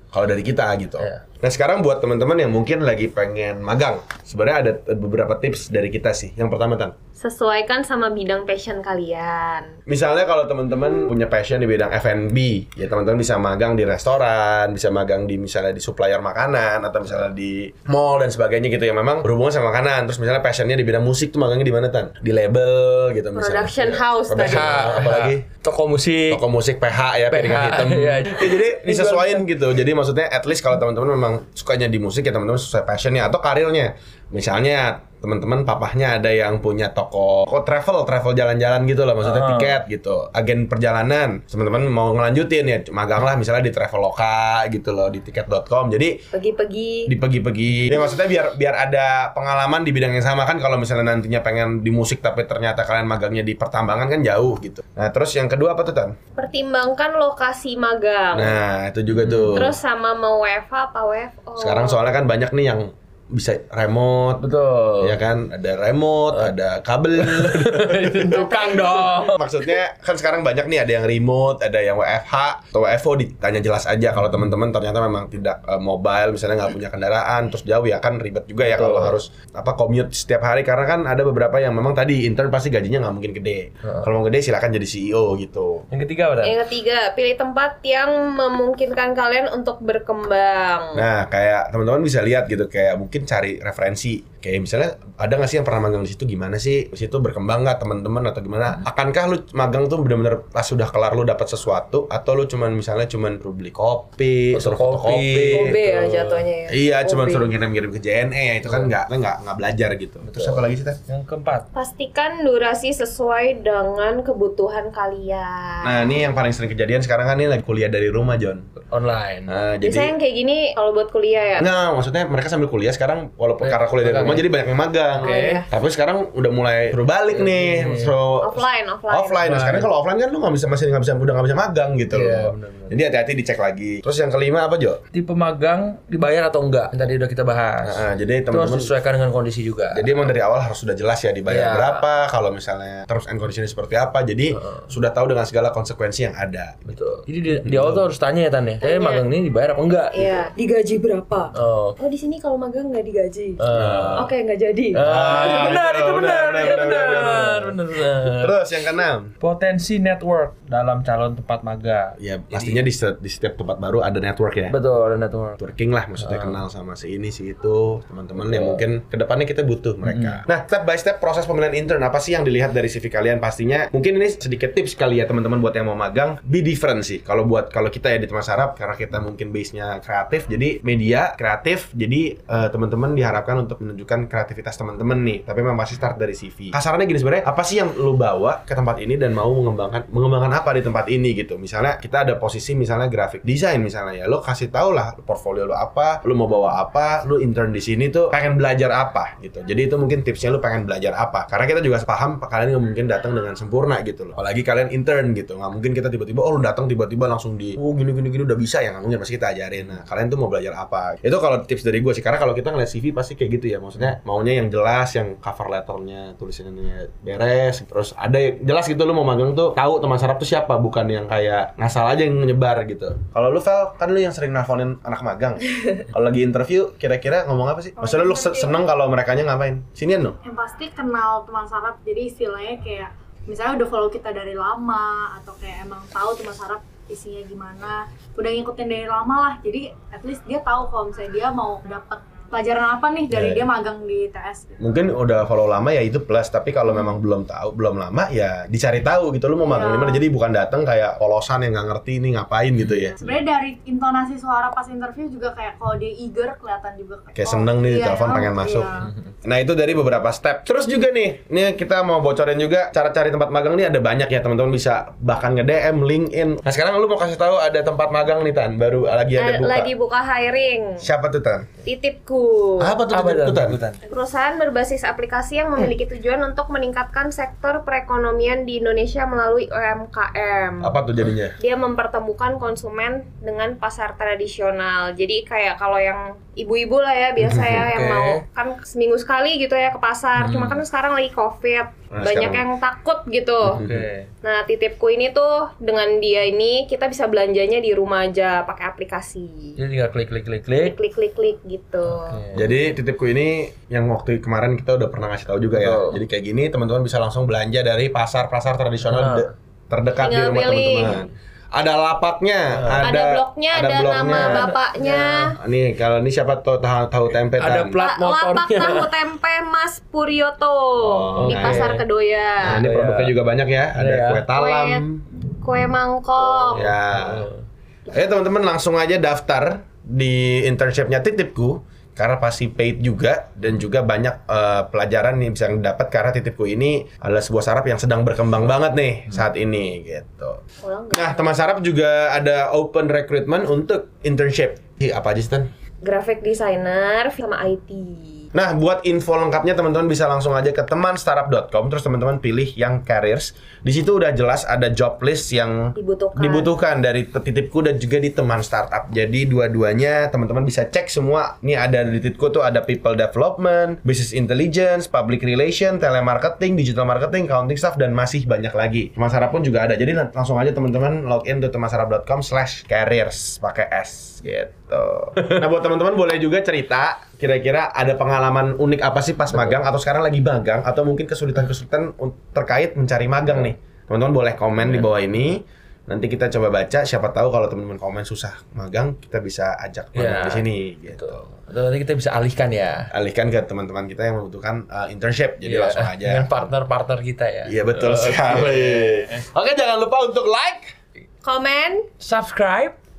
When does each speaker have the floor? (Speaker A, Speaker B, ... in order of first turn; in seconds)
Speaker A: 0.1-6.9, 9.9-23.8, 24.3-25.4, 26.3-46.2, 47.1-56.1, 58.3-59.8, 61.6-64.4, 65.0-85.8, 90.9-105.8, 106.7-111.0, 115.8-118.7, 119.5-120.1, 121.6-135.0, 137.8-138.9, 139.9-148.1, 153.7-154.3, 155.0-159.3, 162.2-164.8, 165.6-230.4, 243.3-243.7, 244.8-253.2, 257.3-258.9, 259.4-269.9, 271.0-271.7, 272.8-273.8, 280.8-281.6, 287.4-287.9, 292.1-292.6, 293.8-294.1, 302.5-314.7, 315.6-318.0, 321.0-321.9, 322.6-325.2, 326.7-327.5, 328.1-340.6, 341.1-345.7, 348.5-391.4, 393.1-396.6, 397.6-400.9
Speaker B: 7.2-9.7, 23.3-24.9, 46.3-47.1, 47.9-48.2, 56.4-58.5, 59.5-62.0, 68.2-69.0, 86.4-91.0, 105.5-107.5, 111.7-116.2, 119.8-121.7, 125.2-125.6, 128.4-129.4, 148.8-149.2, 150.1-155.7, 269.4-271.1, 271.8-273.0, 274.1-281.0, 281.6-293.8, 294.4-299.8, 300.8-302.4, 310.2-311.2, 313.0-315.5, 317.9-322.8, 324.5-326.9, 340.8-341.5, 346.0-348.5, 356.0-356.7, 401.4-402.1
Speaker C: 23.8-26.4, 27.3-29.4, 39.2-39.8, 59.1-59.6, 64.4-65.2, 67.2-69.4, 78.7-79.2, 83.8-84.1, 85.9-86.5, 104.5-106.5, 108.6-108.9, 110.2-111.7, 118.8-119.6, 123.6-124.4, 125.2-125.6, 127.3-128.2, 129.4-129.9, 132.1-133.0, 135.1-140.3, 141.5-142.1, 144.5-144.8, 146.9-150.3, 151.5-152.0, 153.6-154.3, 154.9-158.6, 159.4-162.8, 164.7-165.6, 166.2-166.6, 168.4-168.8, 170.0-170.4, 273.1-274.0, 287.8-288.4, 290.4-290.8, 293.6-294.3, 299.8-301.0, 302.1-302.8, 305.7-306.2, 309.1-309.5, 312.7-313.1, 314.3-315.6, 317.6-319.2, 321.4-322.0, 322.6-323.3, 323.9-324.4, 326.7-327.6, 375.4-375.6, 379.5-379.8, 384.8-385.1, 390.1-393.1, 395.6-399.4, 402.2-402.9
Speaker D: 228.0-228.8, 230.4-244.8, 249.6-250.2, 253.2-259.1